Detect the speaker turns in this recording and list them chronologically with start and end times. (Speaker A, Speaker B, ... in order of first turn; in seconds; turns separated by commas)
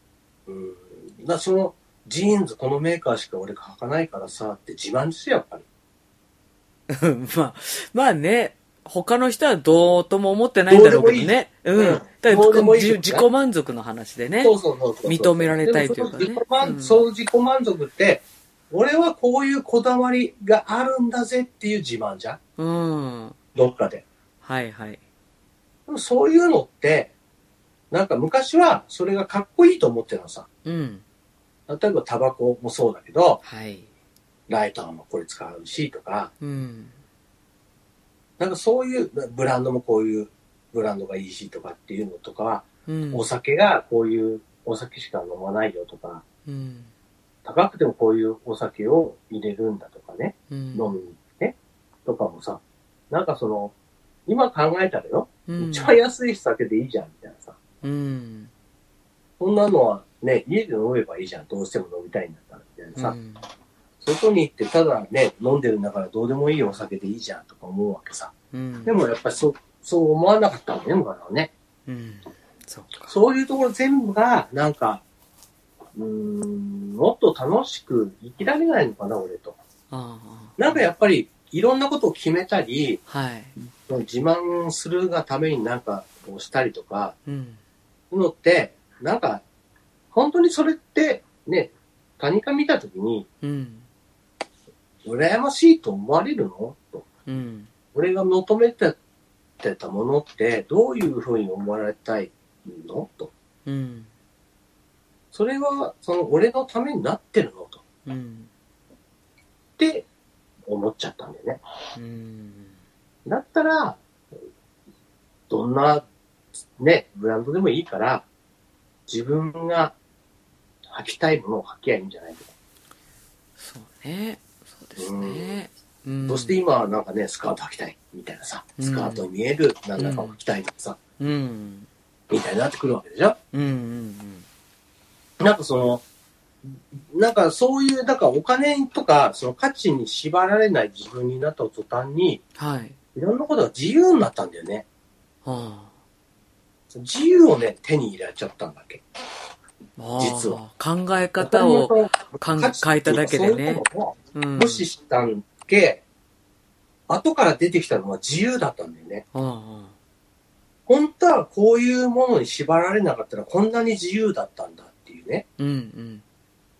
Speaker A: 0.5-5.6, Speaker B: 6.9-17.0, Speaker A: 10.7-13.3, Speaker A: 14.4-22.4, Speaker B: 22.6-23.4, Speaker A: 23.5-24.1, Speaker B: 24.4-25.0, Speaker A: 25.9-27.1, Speaker A: 27.9-30.5, Speaker B: 30.6-31.0, Speaker A: 31.7-33.4, Speaker B: 33.4-33.9, Speaker A: 34.5-36.3, Speaker B: 36.4-36.9, Speaker A: 38.4-46.2, Speaker B: 42.9-43.3, Speaker B: 46.5-46.9, Speaker A: 47.4-53.7, Speaker B: 50.5-51.0, Speaker A: 54.3-57.6, Speaker B: 55.5-55.9, Speaker B: 57.8-58.5, Speaker A: 59.4-63.1, Speaker B: 63.0-63.5, Speaker A: 64.0-68.3, Speaker B: 68.5-68.9, Speaker A: 68.8-71.5, Speaker B: 71.9-73.1, Speaker A: 73.1-75.0, Speaker A: 75.9-79.6, Speaker B: 79.9-80.6, Speaker A: 80.6-83.0, Speaker B: 83.1-83.5, Speaker A: 83.8-87.2, Speaker B: 87.2-87.6, Speaker A: 88.1-89.4, Speaker A: 90.1-93.3, Speaker B: 93.4-93.9, Speaker A: 95.0-97.1, Speaker B: 97.3-97.7, Speaker A: 97.9-99.0, Speaker A: 99.6-103.3, Speaker B: 103.7-104.1, Speaker A: 105.3-107.8, Speaker B: 108.0-108.5, Speaker A: 109.8-110.0, Speaker A: 110.7-111.6, Speaker B: 111.9-112.8, Speaker A: 113.2-114.0, Speaker A: 115.5-116.0, Speaker A: 116.8-118.2, Speaker A: 119.1-119.9, Speaker A: 120.9-122.5, Speaker B: 123.6-126.6, Speaker A: 125.0-125.6, Speaker A: 126.3-131.0, Speaker B: 128.8-129.3, Speaker B: 130.0-130.3, Speaker B: 131.2-131.9, Speaker A: 132.3-133.4, Speaker B: 133.5-134.4, Speaker A: 135.4-136.0, Speaker A: 136.6-142.4, Speaker B: 142.6-142.9, Speaker A: 143.1-144.8, Speaker B: 145.4-145.9, Speaker A: 146.9-149.0, Speaker B: 150.0-154.8, Speaker A: 150.2-150.6, Speaker A: 151.4-156.0, Speaker A: 157.1-159.2, Speaker B: 159.3-159.9, Speaker A: 160.9-165.5, Speaker B: 165.6-166.2